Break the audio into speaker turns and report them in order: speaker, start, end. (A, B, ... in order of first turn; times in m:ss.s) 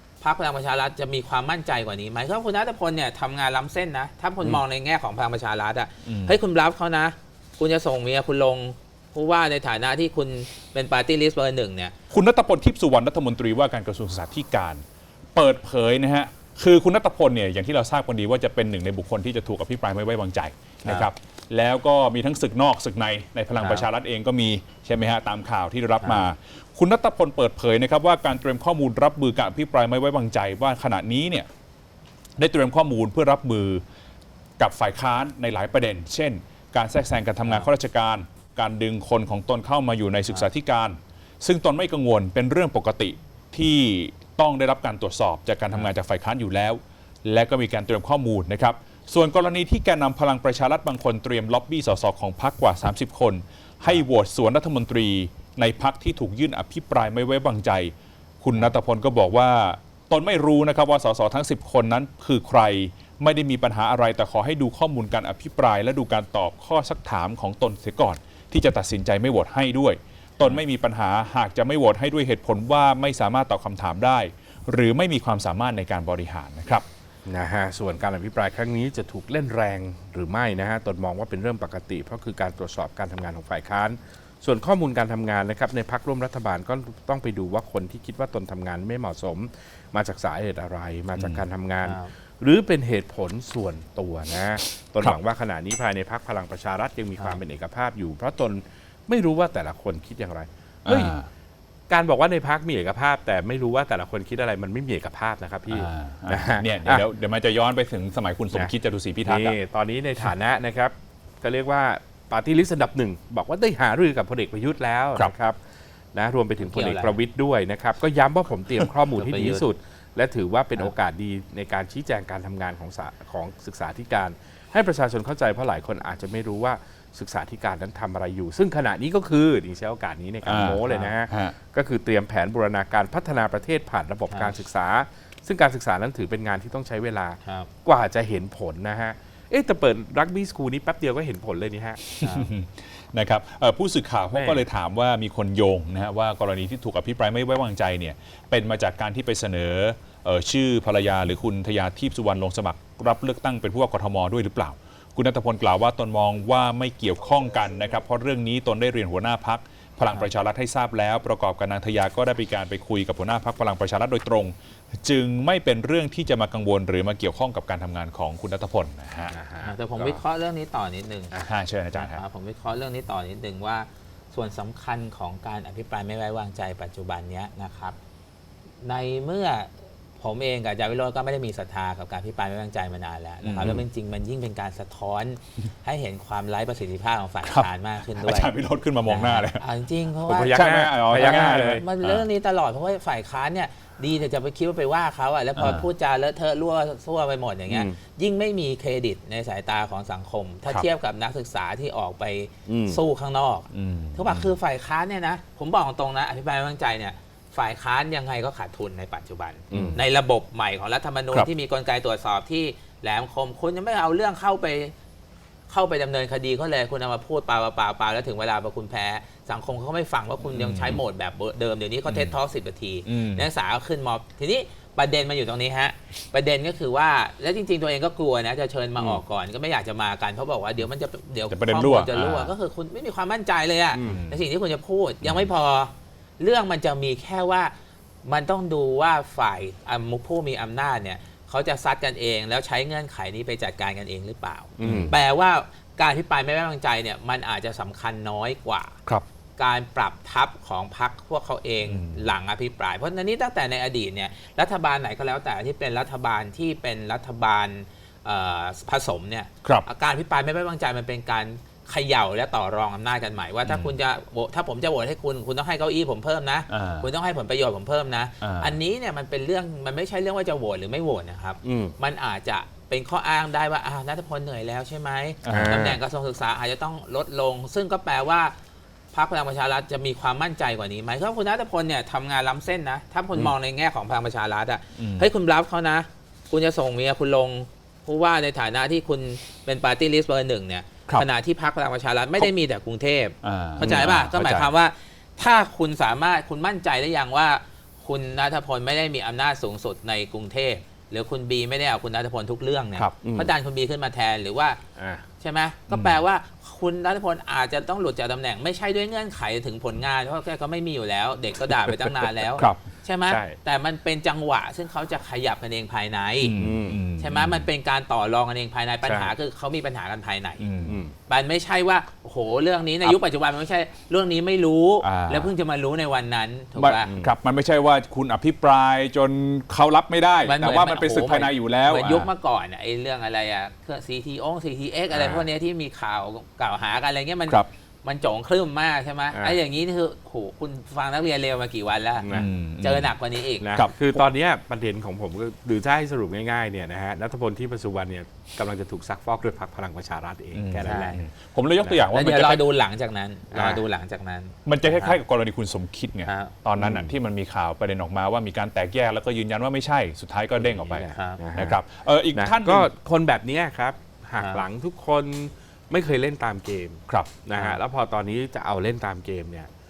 0:00.2-0:11.9 A
0:06.0-0:06.4 B
0:12.1-0:14.8 B
0:15.3-0:31.5 B
0:23.6-0:23.9 A
0:26.0-0:26.3 A
0:32.4-0:33.8 B
0:34.6-1:16.8 B
0:37.4-0:37.7 A
1:17.2-1:41.2 C
1:31.1-1:31.4 B
1:31.8-1:32.1 A
1:40.8-1:41.3 B
1:41.9-1:47.0 C
1:45.7-1:49.6 B
1:49.2-1:55.6 C
1:56.1-2:22.4 C
1:56.6-1:57.2 A
1:59.1-1:59.6 A
2:10.4-2:11.6 B
2:10.9-2:11.1 A
2:14.3-2:14.5 A
2:17.4-2:17.7 A
2:22.2-2:49.4 B
2:24.3-2:24.6 C
2:49.3-2:50.2 C
2:49.6-2:51.3 A
2:51.3-2:52.2 B
2:51.9-2:58.0 A
2:58.8-3:08.5 A
3:03.4-3:03.8 B
3:07.4-3:09.6 B
3:09.1-3:10.6 A
3:10.3-3:11.8 C
3:10.5-3:12.2 B
3:11.1-3:34.9 A
3:15.6-3:15.8 B
3:17.7-3:18.0 C
3:22.7-3:23.0 C
3:23.7-3:24.6 B
3:29.7-3:30.0 C
3:35.7-3:57.7 A
3:40.5-3:41.0 B
3:42.1-3:42.3 B
3:43.1-3:43.5 B
3:51.5-3:52.5 B
3:53.9-3:54.2 C
3:54.0-3:54.4 B
3:55.2-3:55.5 B
3:58.2-4:09.0 A
4:04.8-4:05.1 C
4:04.8-4:05.1 B
4:09.6-4:38.5 A
4:11.8-4:12.3 B
4:23.6-4:24.0 B
4:26.7-4:27.1 B
4:28.4-4:28.7 B
4:31.6-4:31.9 C
4:35.4-4:35.8 B
4:35.5-4:36.0 C
4:39.1-5:04.8 A
4:45.0-4:45.3 B
4:53.4-4:54.7 B
5:03.2-5:03.5 C
5:05.0-5:05.2 C
5:05.4-5:16.5 A
5:05.9-5:06.2 B
5:13.3-5:13.6 C
5:16.4-5:17.7 B
5:16.6-5:17.0 C
5:17.2-5:20.6 A
5:19.0-5:19.3 C
5:20.6-5:21.0 B
5:20.9-5:21.1 C
5:21.3-5:27.1 A
5:25.0-5:25.5 B
5:26.8-5:32.3 B
5:27.0-5:27.3 C
5:30.4-5:42.3 A
5:35.1-5:35.5 C
5:39.3-5:39.6 C
5:42.2-5:42.5 C
5:42.3-5:43.1 B
5:42.8-5:43.7 A
5:43.6-5:51.2 C
5:43.7-5:44.2 B
5:50.5-5:52.6 B
5:50.8-5:51.2 A
5:51.8-5:52.1 C
5:52.1-5:55.2 A
5:53.5-5:53.8 C
5:54.6-6:02.9 B
5:56.2-5:56.5 A
5:56.8-5:57.1 C
6:00.6-6:01.8 C
6:01.1-6:01.4 A
6:02.3-6:09.7 C
6:04.4-6:04.6 A
6:07.1-6:07.8 B